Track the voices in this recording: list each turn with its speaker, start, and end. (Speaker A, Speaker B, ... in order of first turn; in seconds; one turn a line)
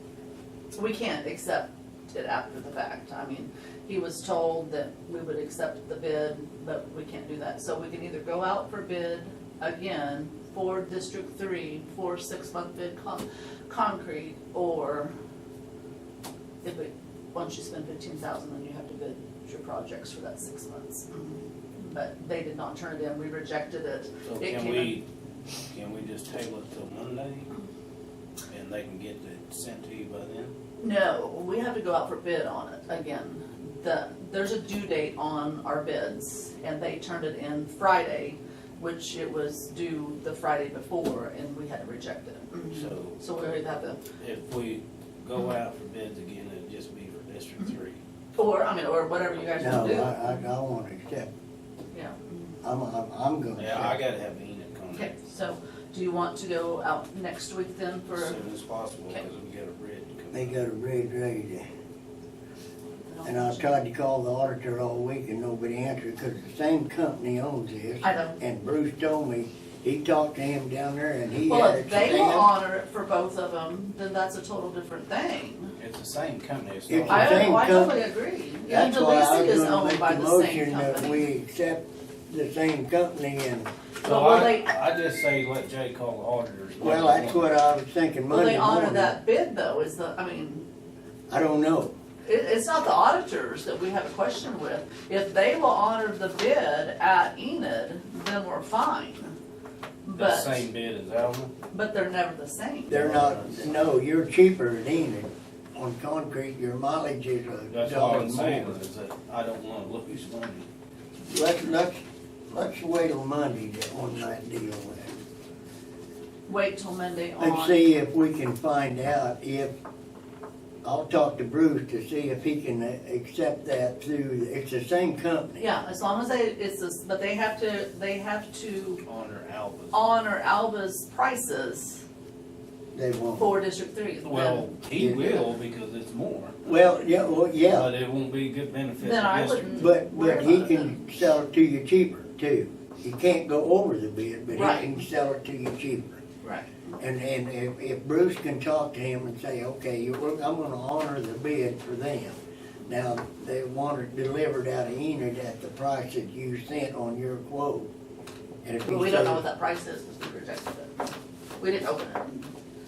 Speaker A: 0.7-15.1
Speaker A: 16.6-25.0
Speaker B: 24.2-25.0
Speaker B: 25.7-27.5
Speaker B: 28.5-30.5
Speaker A: 30.8-44.0
Speaker B: 42.7-43.2
Speaker B: 44.2-48.0
Speaker A: 48.4-50.5
Speaker C: 49.6-51.3
Speaker A: 51.9-52.5
Speaker C: 52.6-54.0
Speaker B: 53.6-55.1
Speaker A: 54.9-58.4
Speaker B: 58.1-60.6
Speaker C: 60.3-61.7
Speaker A: 63.0-63.8
Speaker C: 63.2-72.5
Speaker A: 68.0-68.4
Speaker A: 71.5-75.7
Speaker B: 75.8-77.7
Speaker C: 76.9-78.0
Speaker A: 77.1-81.3
Speaker C: 78.7-83.7
Speaker B: 84.0-87.5
Speaker A: 84.0-84.7
Speaker C: 86.8-89.2
Speaker A: 88.3-90.7
Speaker C: 91.3-91.9
Speaker A: 92.2-99.3
Speaker A: 100.0-100.6
Speaker B: 100.1-101.5
Speaker A: 101.7-103.0
Speaker C: 102.9-108.8
Speaker B: 102.9-103.9
Speaker B: 107.7-110.7
Speaker C: 111.3-115.2
Speaker A: 116.5-117.8
Speaker C: 117.4-119.7
Speaker C: 120.8-125.6
Speaker A: 125.6-129.0
Speaker B: 129.0-130.0
Speaker A: 129.9-132.0
Speaker C: 132.9-133.5
Speaker A: 133.4-134.7
Speaker B: 134.2-136.6
Speaker C: 134.9-135.4
Speaker C: 136.6-137.9
Speaker B: 137.7-139.9
Speaker A: 139.0-141.0
Speaker C: 139.7-146.2
Speaker A: 144.5-145.0
Speaker A: 146.4-146.9
Speaker C: 147.0-157.9
Speaker C: 158.6-159.4
Speaker A: 158.8-162.5